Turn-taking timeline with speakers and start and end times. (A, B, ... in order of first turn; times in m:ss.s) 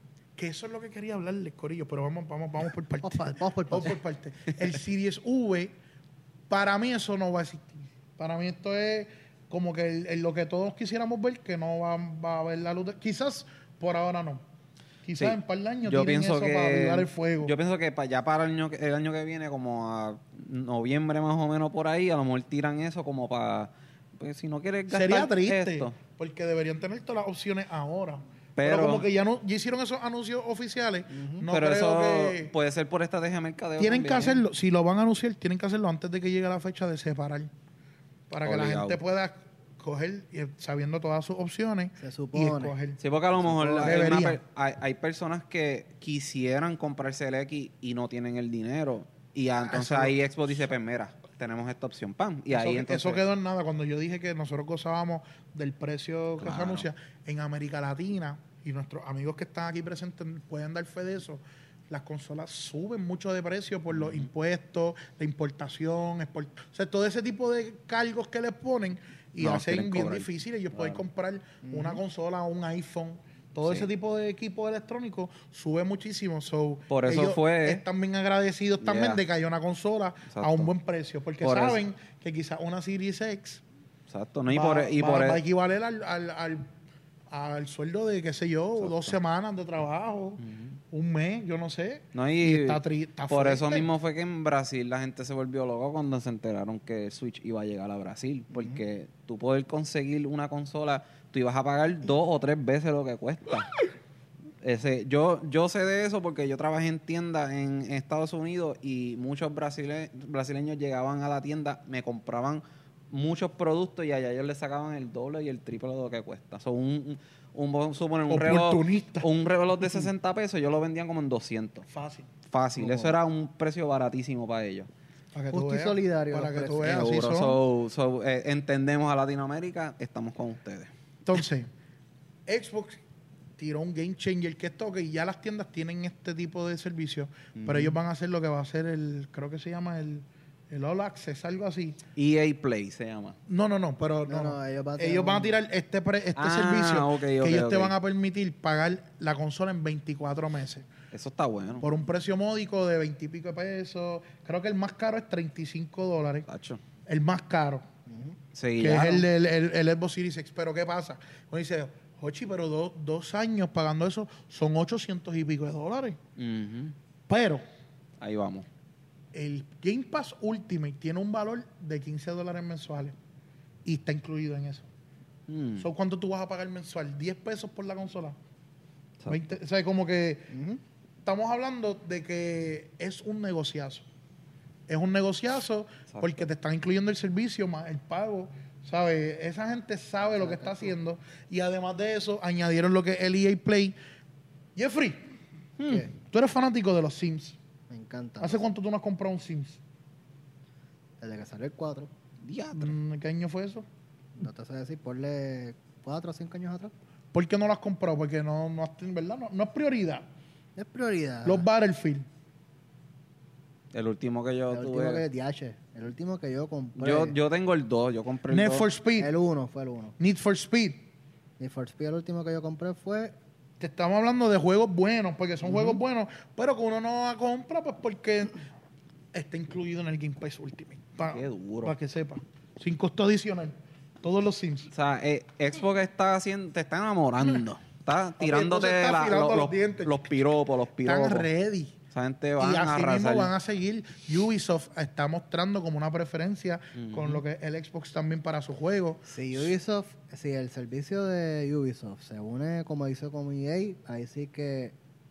0:00.4-0:05.7 A
0:03.0-0:04.0 B
0:06.5-0:14.4 A
0:15.0-0:17.5 A
0:15.2-0:26.0 C
0:24.9-0:32.5 A
0:28.6-0:29.0 C
0:31.1-0:31.5 B
0:31.5-0:34.4 C
0:33.8-0:37.5 A
0:38.3-0:44.4 A
0:38.4-0:39.0 C
0:42.0-0:42.7 B
0:43.0-0:53.2 C
0:43.6-0:43.9 B
0:49.6-0:50.2 A
0:52.5-1:23.6 A
0:56.4-0:56.9 C
1:04.0-1:04.2 C
1:09.4-1:11.0 C
1:11.6-1:12.0 B
1:16.9-1:17.8 C
1:18.8-1:19.2 C
1:20.3-1:20.7 C
1:21.4-1:21.8 C
1:24.1-1:25.4 C
1:24.5-1:26.7 A
1:27.3-1:33.9 A
1:28.8-1:29.1 C
1:30.4-1:30.8 C
1:32.1-1:43.7 C
1:44.6-2:01.9 C
1:58.3-1:59.3 A
2:01.9-2:02.3 A
2:02.5-2:04.9 C
2:02.8-2:03.1 A
2:05.3-2:07.6 A
2:05.5-2:07.1 B
2:06.8-2:10.9 C
2:11.2-2:11.7 A
2:12.5-2:13.0 A
2:13.6-2:22.0 A
2:17.6-2:18.0 C
2:22.2-2:23.4 C
2:23.5-2:30.8 A
2:24.2-2:25.6 B
2:26.4-2:27.9 C
2:31.1-2:31.8 C
2:31.8-2:36.5 A
2:36.5-2:36.8 C
2:37.1-2:37.8 A
2:38.1-2:38.4 B
2:38.5-2:39.3 C
2:38.8-2:46.2 A
2:46.4-2:46.9 C
2:47.3-2:47.6 A
2:48.2-2:48.6 C
2:49.3-2:53.2 A
2:53.8-2:54.9 A
2:55.5-2:55.9 C
2:55.8-2:58.4 A
2:59.2-2:59.5 C
2:59.3-3:00.5 A
3:00.5-3:00.8 B
3:01.2-3:04.0 A
3:04.9-3:14.0 A
3:06.1-3:06.4 C
3:10.2-3:11.0 B
3:14.8-3:15.3 A
3:15.8-3:16.0 C
3:15.9-3:16.1 B
3:16.1-3:17.6 A
3:17.9-3:18.6 B
3:18.4-3:19.8 A
3:21.2-3:22.1 B
3:22.4-3:22.9 C
3:22.7-3:23.8 A
3:24.4-3:26.9 B
3:27.3-3:30.2 A
3:30.8-3:31.6 B
3:31.4-3:32.2 A
3:33.9-3:35.2 C
3:34.7-3:37.4 B
3:37.0-3:38.9 C
3:38.5-3:39.3 A
3:39.2-3:40.1 B
3:40.2-3:41.0 A
3:41.6-3:43.3 B
3:43.8-3:48.6 A
3:49.3-3:54.9 A
3:51.3-3:51.9 C
3:54.9-4:01.5 C
3:58.4-4:00.4 A
4:01.0-4:01.9 A
4:02.1-4:03.5 C
4:02.6-4:09.7 A
4:07.0-4:07.4 C
4:09.3-4:14.9 B